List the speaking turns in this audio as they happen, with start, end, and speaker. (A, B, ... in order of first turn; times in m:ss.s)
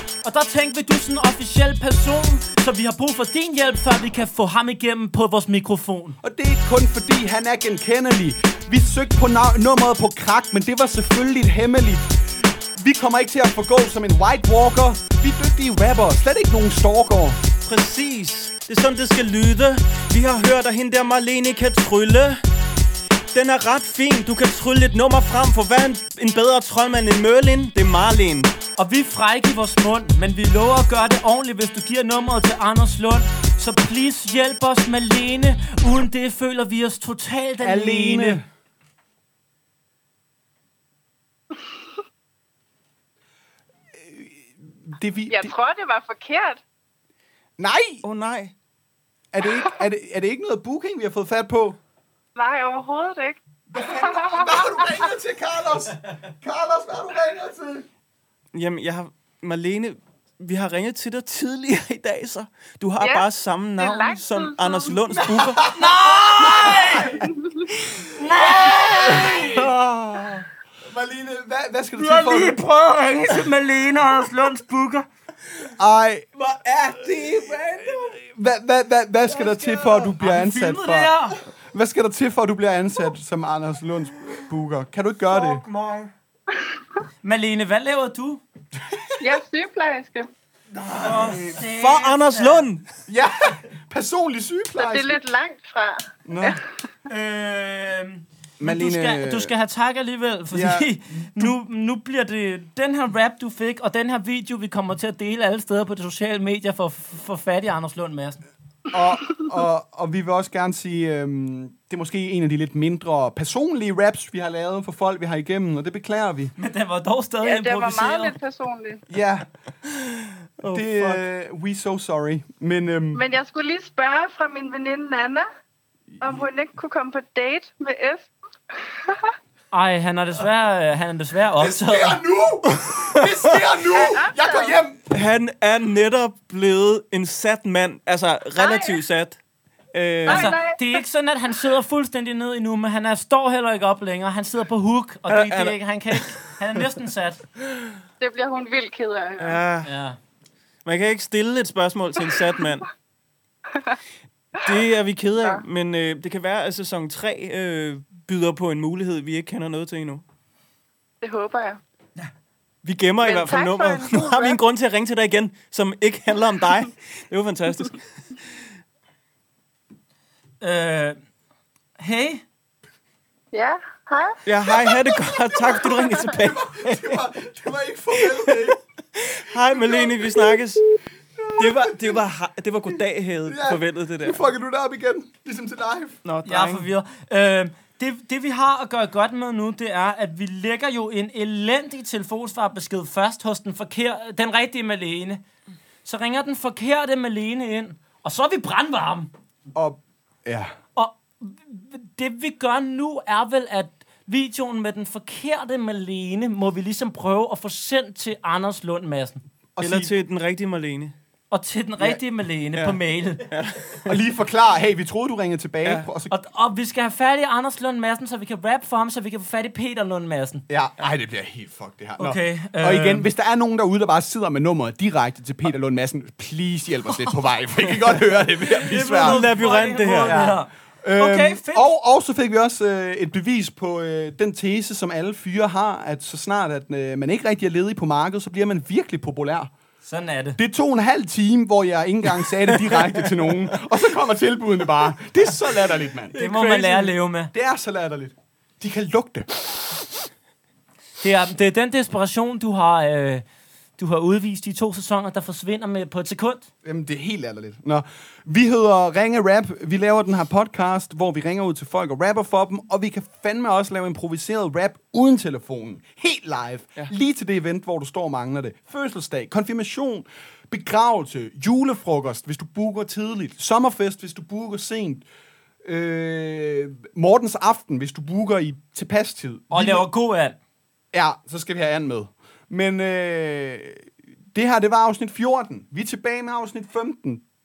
0:00.2-0:06.2 A
0:06.2-0:17.4 B
0:17.6-0:22.4 C
0:23.3-0:28.5 C
0:28.8-0:38.4 A
0:37.6-0:38.4 B
0:43.9-0:45.5 B
0:45.3-0:46.6 D
0:47.6-0:48.0 B
0:48.0-0:48.5 C
0:49.3-0:51.8 B
0:52.4-0:55.0 D
0:53.7-0:57.9 B
0:58.5-1:05.6 C
1:03.0-1:05.0 D
1:05.1-1:07.1 B
1:05.7-1:07.2 A
1:07.3-1:07.7 D
1:08.2-1:09.6 A
1:08.7-1:12.7 B
1:12.0-1:15.1 A
1:15.8-1:16.2 B
1:16.4-1:18.2 C
1:18.2-1:21.1 B
1:19.7-1:21.4 A
1:21.7-1:25.6 B
1:25.3-1:26.1 C
1:27.2-1:28.4 A
1:28.7-1:29.3 B
1:29.2-1:30.3 D
1:30.7-1:32.8 C
1:31.0-1:32.7 A
1:33.1-1:35.2 B
1:34.7-1:36.6 D
1:36.2-1:36.6 B
1:37.1-1:48.4 A
1:38.6-1:39.5 B
1:40.5-1:41.5 B
1:48.9-1:56.5 B
1:56.6-1:58.3 A
1:57.4-1:59.0 D
1:59.1-1:59.5 B
2:00.6-2:01.2 C
2:00.6-2:03.2 B
2:03.1-2:05.4 D
2:06.2-2:06.4 B
2:06.2-2:08.3 D
2:09.7-2:12.2 A
2:11.6-2:15.0 B
2:13.9-2:14.8 D
2:15.1-2:19.4 C
2:18.6-2:19.0 D
2:19.9-2:20.6 C
2:20.2-2:21.0 D
2:20.2-2:27.4 A
2:25.3-2:26.5 C
2:28.2-2:29.6 D
2:29.4-2:29.9 C
2:29.8-2:30.2 A
2:30.8-2:32.8 C
2:34.6-2:40.2 C
2:41.2-2:41.8 D
2:42.8-2:48.0 C
2:43.2-2:44.6 D
2:50.6-2:51.2 A
2:52.0-2:52.4 A
2:53.5-2:54.4 D
2:54.4-2:57.2 C
2:56.4-2:58.8 B
2:58.5-3:00.8 C
3:01.4-3:02.2 B
3:01.6-3:04.4 C
3:03.4-3:06.2 B
3:06.2-3:06.9 C
3:06.4-3:15.4 A
3:16.0-3:19.3 A
3:19.7-3:20.7 B
3:21.0-3:29.4 A
3:29.8-3:30.1 B
3:29.8-3:31.1 C
3:31.5-3:33.5 A
3:33.5-3:34.1 C
3:34.0-3:36.3 B
3:36.3-3:40.6 A
3:40.7-3:49.6 B
3:42.2-3:43.3 A
3:48.9-3:51.8 A
3:49.0-3:50.4 C
3:50.2-3:59.7 B
4:00.0-4:00.6 A
4:00.6-4:06.3 B
4:06.3-4:07.1 C
4:06.4-4:07.5 A
4:07.5-4:10.0 B
4:11.2-4:13.4 A
4:14.0-4:16.6 A
4:16.8-4:35.2 B
4:35.8-4:40.1 B
4:39.7-4:40.6 A
4:41.1-4:47.4 B